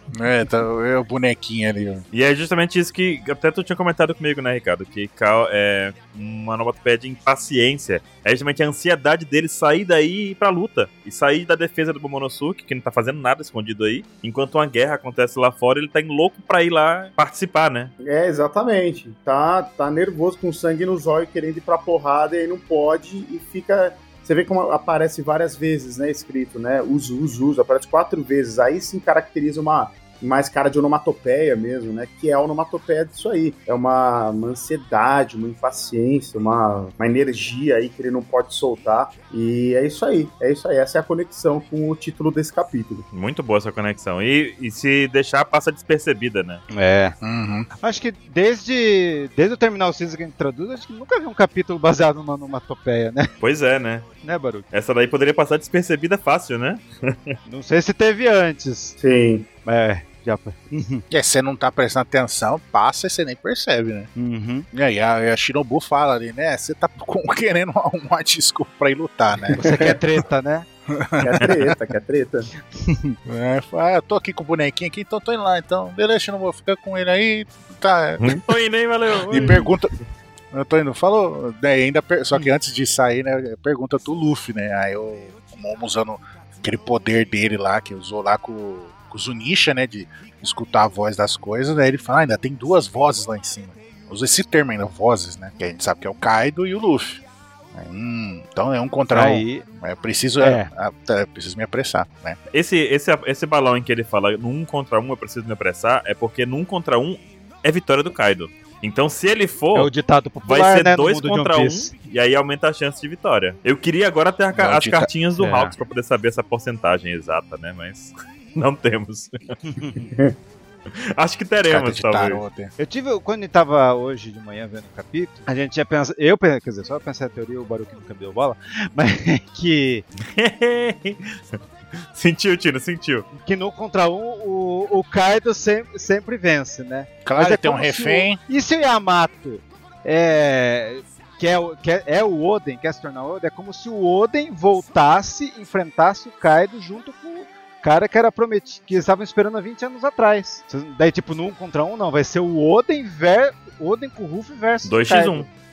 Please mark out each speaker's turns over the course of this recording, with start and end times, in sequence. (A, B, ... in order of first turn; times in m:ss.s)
0:00.1-0:02.1 A
0:02.1-0:17.9 B
0:18.0-0:43.1 C
0:43.1-0:46.6 B
0:46.7-0:47.2 D
0:47.2-0:47.7 A
0:47.8-0:53.3 D
0:53.4-0:54.1 B
0:54.2-0:54.6 D
0:54.7-0:57.4 B
0:57.5-0:59.0 D
0:59.0-0:59.5 C
0:59.6-1:01.0 D
1:01.1-1:04.1 A
1:04.2-1:04.7 D
1:04.7-1:10.0 A
1:09.5-1:10.7 D
1:10.9-1:11.7 A
1:11.2-1:12.5 C
1:12.8-1:13.2 D
1:13.2-1:18.4 A
1:18.2-1:19.7 B
1:19.3-1:19.9 A
1:20.5-1:37.2 A
1:37.7-1:42.4 A
1:39.1-1:39.6 D
1:40.4-1:40.7 D
1:42.5-1:49.9 B
1:49.7-1:51.9 D
1:50.4-1:59.6 B
1:54.5-1:55.1 A
1:55.4-1:55.7 D
1:59.7-2:00.1 D
2:01.0-2:02.4 B
2:01.7-2:02.7 A
2:02.8-2:10.0 D
2:10.3-2:11.6 B
2:12.2-2:13.3 B
2:13.4-2:35.5 D
2:17.2-2:18.4 A
2:34.8-2:35.5 B